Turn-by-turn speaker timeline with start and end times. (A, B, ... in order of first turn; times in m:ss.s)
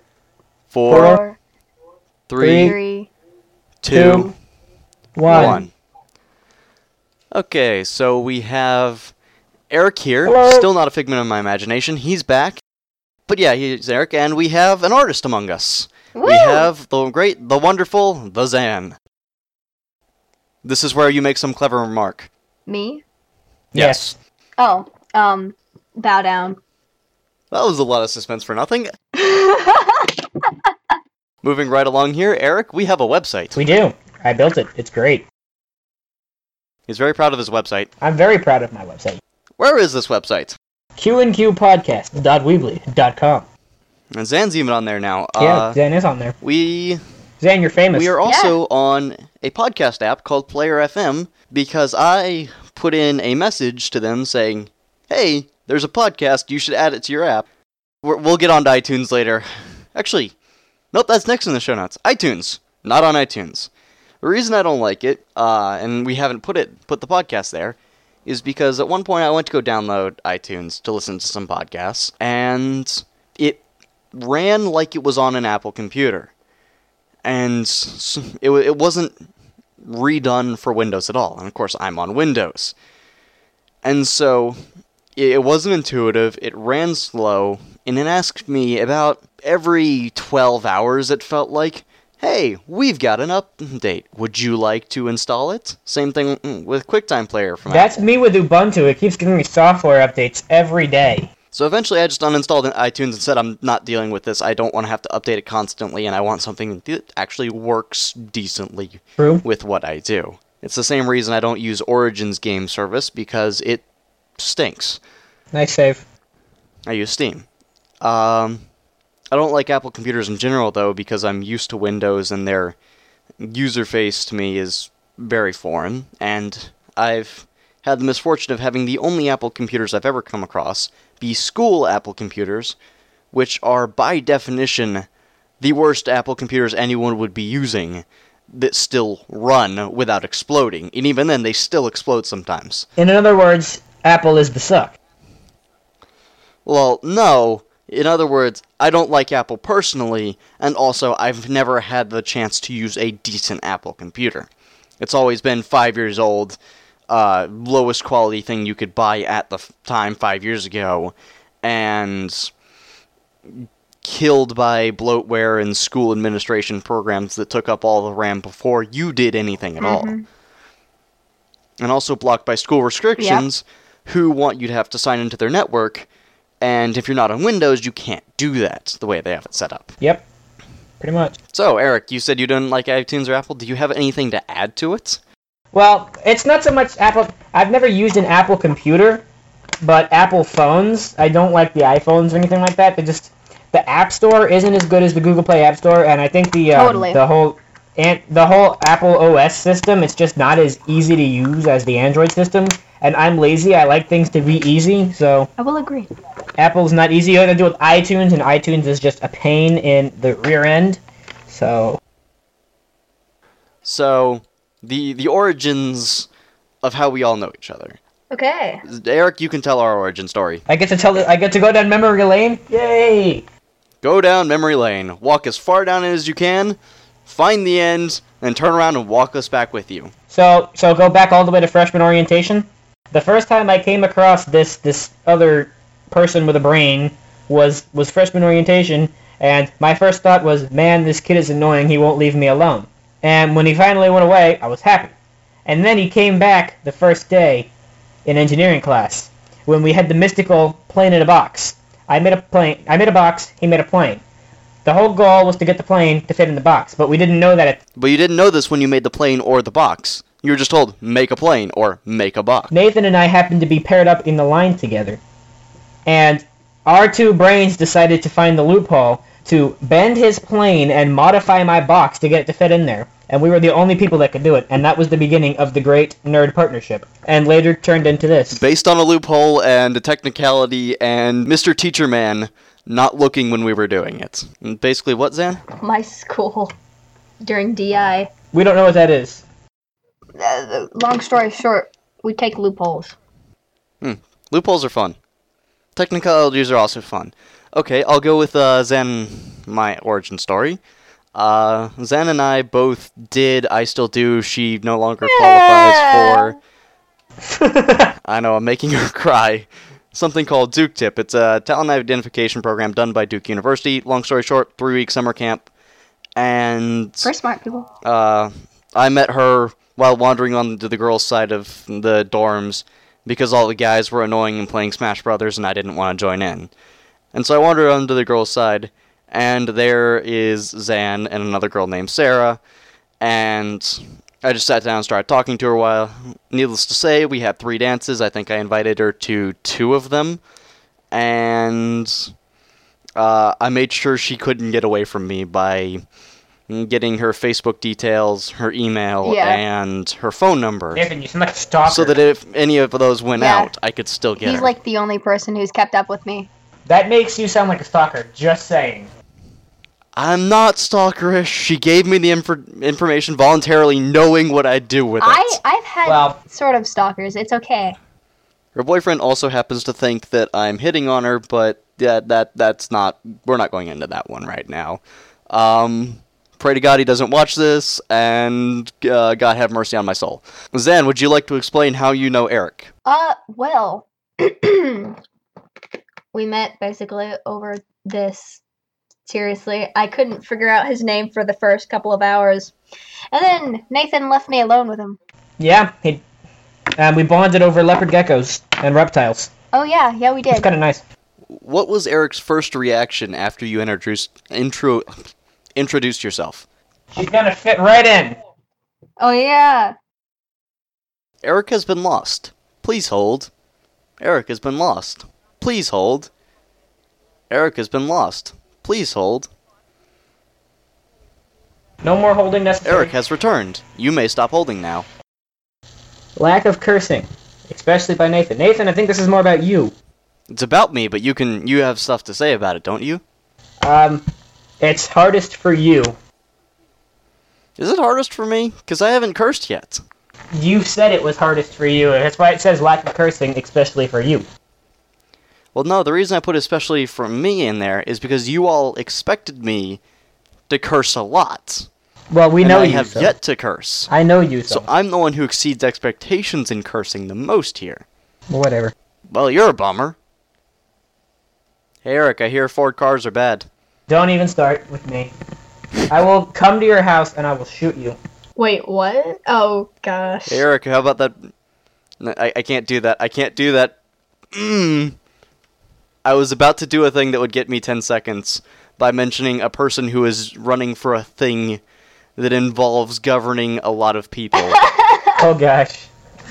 0:00.7-0:01.2 A
0:00.9-0:01.4 B
0:00.9-0:01.2 C
0:02.3-0:02.8 A
0:02.4-0:02.8 C
0:02.5-0:03.1 B
0:03.8-0:04.3 A
0:03.9-0:04.3 C
0:05.2-0:05.6 C
0:05.2-0:05.6 B
0:05.3-0:05.7 A
0:07.3-0:09.1 A
0:09.7-0:12.6 A
0:10.2-0:10.7 C
0:13.3-0:19.0 A
0:16.1-0:16.7 B
0:20.6-0:22.3 A
0:22.7-0:23.0 B
0:23.7-0:24.0 C
0:23.7-0:24.2 A
0:24.6-0:26.6 B
0:27.5-0:28.9 A
0:29.1-0:30.1 B
0:31.4-0:33.6 A
0:33.6-0:35.3 C
0:36.9-0:37.9 A
0:38.0-0:39.2 C
0:39.6-0:40.6 A
0:41.0-0:43.5 C
0:44.1-0:45.8 A
0:45.4-0:46.4 C
0:46.4-0:47.0 A
0:47.4-0:48.2 C
0:47.9-0:57.5 A
0:48.2-0:48.6 B
0:58.0-1:00.4 A
1:00.9-1:03.7 A
1:04.2-1:13.6 A
1:14.1-1:16.3 A
1:17.2-1:19.1 A
1:19.8-1:22.7 A
1:23.8-1:24.6 A
1:25.2-1:37.9 A
1:37.7-1:41.3 C
1:41.5-1:53.8 A
1:49.2-1:49.4 C
1:54.4-1:55.0 A
1:55.5-1:56.0 C
1:56.9-1:57.4 A
1:58.0-1:58.6 A
1:59.3-2:02.8 A
2:03.4-2:12.8 A
2:13.3-2:15.1 A
2:15.6-2:22.9 A
2:23.0-2:24.9 C
2:26.7-2:34.5 A
2:35.0-2:36.6 A
2:37.1-2:42.5 A
2:43.5-2:50.1 A
2:49.8-2:50.2 B
2:51.8-2:56.1 A
2:53.2-2:53.4 B
2:56.6-2:59.9 A
3:01.0-3:01.4 C
3:01.5-3:05.2 A
3:05.7-3:09.2 C
3:09.8-3:25.5 C
3:16.7-3:17.2 B
3:25.6-3:26.1 B
3:26.6-3:32.0 C
3:33.8-3:36.3 A
3:36.8-3:38.0 A
3:38.3-3:38.8 B
3:38.8-3:40.6 A
3:40.7-3:43.4 C
3:44.0-3:50.1 A
3:50.3-4:05.1 C
4:05.7-4:07.7 C
4:08.2-4:14.2 C
4:14.8-4:17.8 C
4:18.0-4:22.7 A
4:22.7-4:25.2 C
4:26.1-4:38.6 C
4:38.5-4:45.6 A
4:45.8-4:46.7 B
4:47.4-4:48.3 B
4:48.5-4:49.4 C
4:50.4-4:53.2 B
4:54.0-4:55.2 A
4:56.0-5:00.8 A
5:01.3-5:06.6 A
5:05.2-5:06.5 B
5:07.4-5:08.1 C
5:08.2-5:15.7 A
5:16.4-5:17.3 A
5:17.2-5:17.9 B
5:18.0-5:26.7 A
5:27.3-5:32.6 A
5:33.2-5:40.4 A
5:41.1-5:42.3 A
5:43.2-5:46.0 A
5:46.7-5:51.1 A
5:49.2-5:49.6 B
5:50.9-5:52.2 C
5:51.8-5:54.7 A
5:53.4-5:53.7 B
5:54.4-5:56.5 B
5:56.9-5:59.1 C
6:00.2-6:05.6 A
6:05.2-6:08.0 B
6:06.1-6:06.4 C
6:08.8-6:22.9 A
6:23.1-6:25.2 B
6:26.3-6:28.6 B
6:29.2-6:32.7 B
6:33.3-6:35.2 B
6:35.6-6:36.2 C
6:37.0-6:39.5 C
6:39.7-6:40.7 B
6:40.5-6:41.0 C
6:41.5-6:46.6 A
6:47.1-6:48.4 C
6:49.2-6:49.9 B
6:51.4-6:53.5 A
6:54.2-6:56.3 A
6:57.5-6:59.5 A
7:02.0-7:03.1 C
7:02.8-7:05.1 A
7:06.4-7:09.9 C
7:10.5-7:13.2 A
7:13.8-7:14.2 C
7:14.8-7:16.2 C
7:17.8-7:20.0 A
7:20.5-7:24.5 C
7:25.7-7:30.0 A
7:30.7-7:31.9 A
7:32.3-7:33.3 C
7:32.6-7:34.1 A
7:34.1-7:34.9 C
7:34.7-7:38.0 A
7:38.5-7:38.9 C
7:39.3-7:40.2 A
7:42.0-7:43.7 A
7:44.1-7:45.3 C
7:46.1-7:48.2 C
7:48.6-7:50.6 B
7:50.5-7:51.5 A
7:52.2-7:54.0 A
7:54.5-7:55.2 A
7:56.2-8:01.8 A
8:02.4-8:04.8 A
8:04.6-8:05.4 B
8:05.4-8:06.1 C